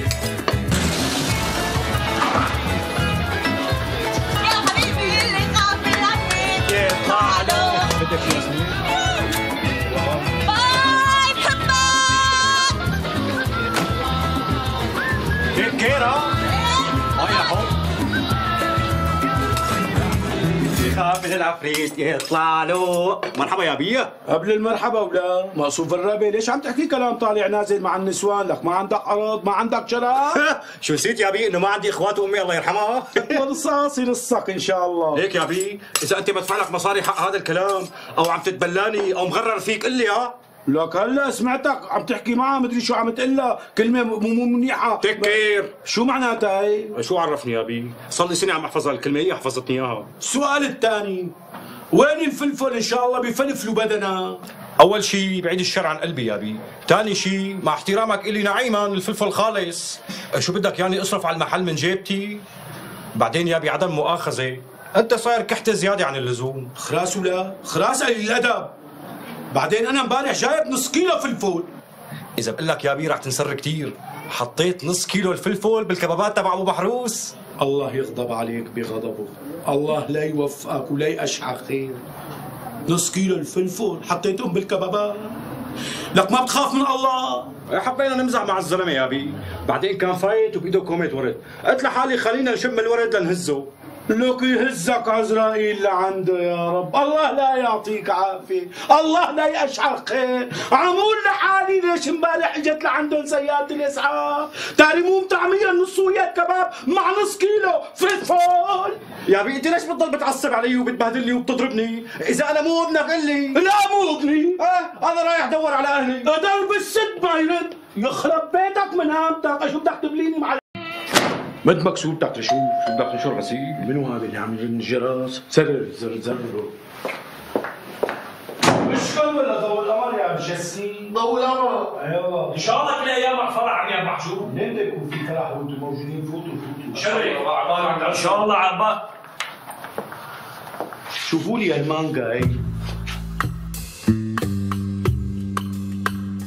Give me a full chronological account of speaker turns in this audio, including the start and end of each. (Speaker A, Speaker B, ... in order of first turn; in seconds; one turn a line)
Speaker A: 4.4-7.9
Speaker B: 6.7-8.8
Speaker B: 9.9-10.2
Speaker A: 10.4-12.7
Speaker B: 15.5-16.4
Speaker B: 17.1-17.7
Speaker B: 20.7-24.1
Speaker C: 24.3-30.4
Speaker B: 30.3-33.4
Speaker C: 33.1-35.2
Speaker B: 35.1-40.3
Speaker C: 40.7-46.9
Speaker B: 45.0-45.7
Speaker B: 46.9-50.1
Speaker C: 50.2-51.3
Speaker C: 51.9-54.4
Speaker B: 54.8-62.4
Speaker B: 63.1-66.7
Speaker C: 66.8-68.7
Speaker C: 69.5-71.7
Speaker B: 72.4-77.3
Speaker C: 77.6-82.0
Speaker C: 82.9-85.4
Speaker C: 86.1-87.5
Speaker B: 87.7-93.7
Speaker C: 94.1-109.0
Speaker B: 109.3-113.6
Speaker C: 113.5-114.6
Speaker B: 114.6-116.3
Speaker C: 116.2-120.6
Speaker C: 121.6-122.8
Speaker B: 122.8-123.8
Speaker C: 123.8-126.7
Speaker C: 128.7-131.2
Speaker C: 131.9-132.7
Speaker D: 132.5-134.5
Speaker C: 134.4-137.4
Speaker D: 136.9-139.0
Speaker C: 141.2-142.6